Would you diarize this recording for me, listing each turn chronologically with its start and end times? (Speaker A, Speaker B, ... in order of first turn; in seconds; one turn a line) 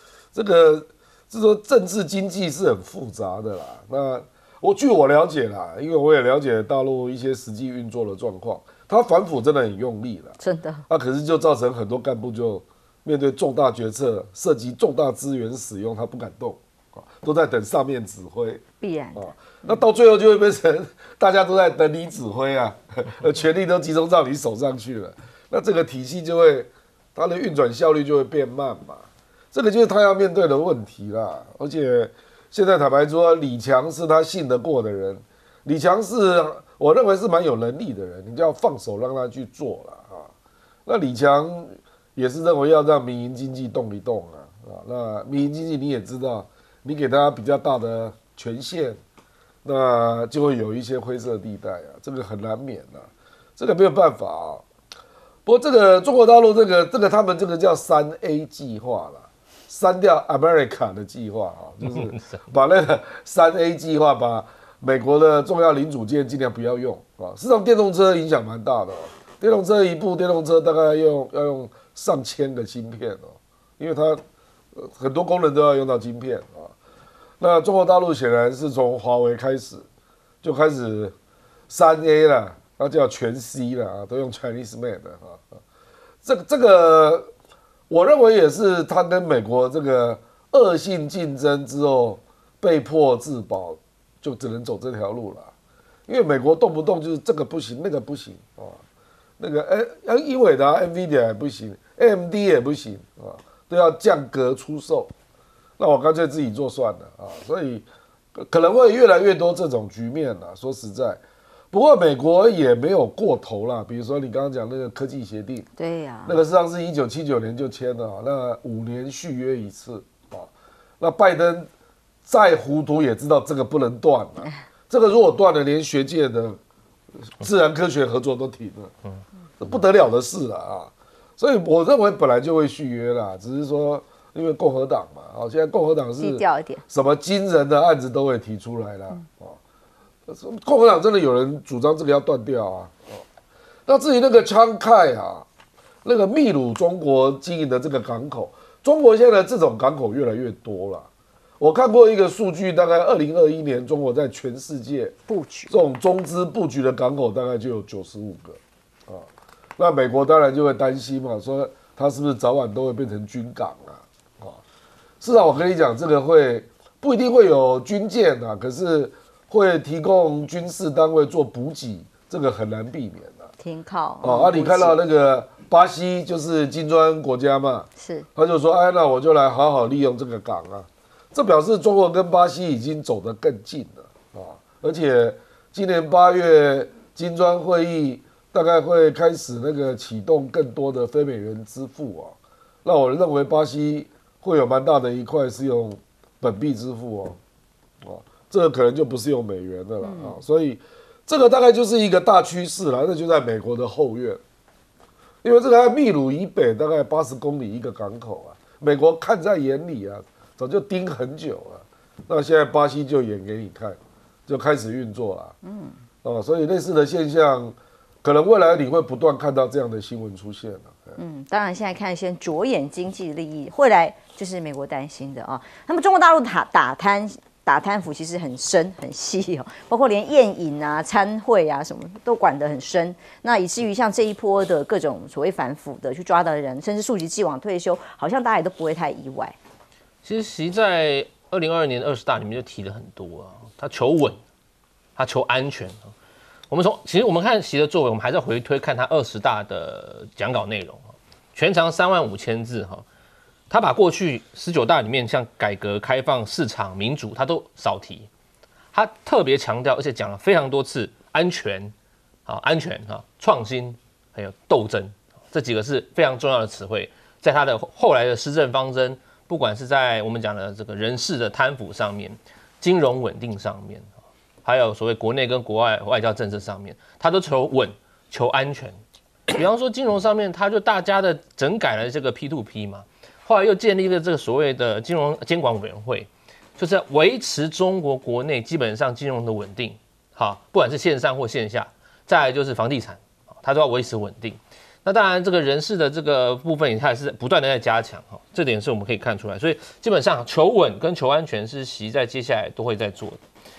Speaker A: 0.3-10.3
Speaker B: 10.4-10.8
Speaker A: 10.9-18.6
Speaker B: 18.8-19.8
Speaker A: 19.1-40.3
Speaker A: 40.9-49.0
Speaker A: 49.6-54.6
Speaker A: 55.5-74.2
Speaker A: 74.8-76.7
Speaker A: 77.4-79.8
Speaker A: 80.4-81.1
Speaker A: 81.7-85.6
Speaker A: 86.2-87.3
Speaker A: 87.9-95.5
Speaker A: 96.1-98.8
Speaker A: 99.4-105.1
Speaker A: 105.8-111.2
Speaker A: 111.7-115.7
Speaker B: 115.8-116.4
Speaker A: 116.3-120.5
Speaker A: 121.0-121.7
Speaker A: 122.2-126.6
Speaker A: 127.4-128.9
Speaker A: 129.6-139.6
Speaker B: 136.2-136.8
Speaker A: 140.3-143.2
Speaker A: 143.9-145.4
Speaker A: 146.0-151.1
Speaker A: 151.6-155.1
Speaker B: 155.3-155.7
Speaker A: 155.7-159.3
Speaker A: 159.8-164.6
Speaker A: 165.2-173.5
Speaker B: 173.6-174.9
Speaker A: 174.2-197.4
Speaker B: 178.0-178.3
Speaker A: 198.0-204.4
Speaker B: 200.0-200.4
Speaker A: 205.4-215.6
Speaker B: 215.6-215.9
Speaker A: 216.2-221.2
Speaker B: 221.2-239.6
Speaker C: 240.2-244.4
Speaker C: 245.2-246.1
Speaker C: 246.7-253.1
Speaker C: 253.7-258.3
Speaker C: 258.9-261.9
Speaker C: 262.4-274.1
Speaker C: 274.6-279.0
Speaker C: 279.5-303.4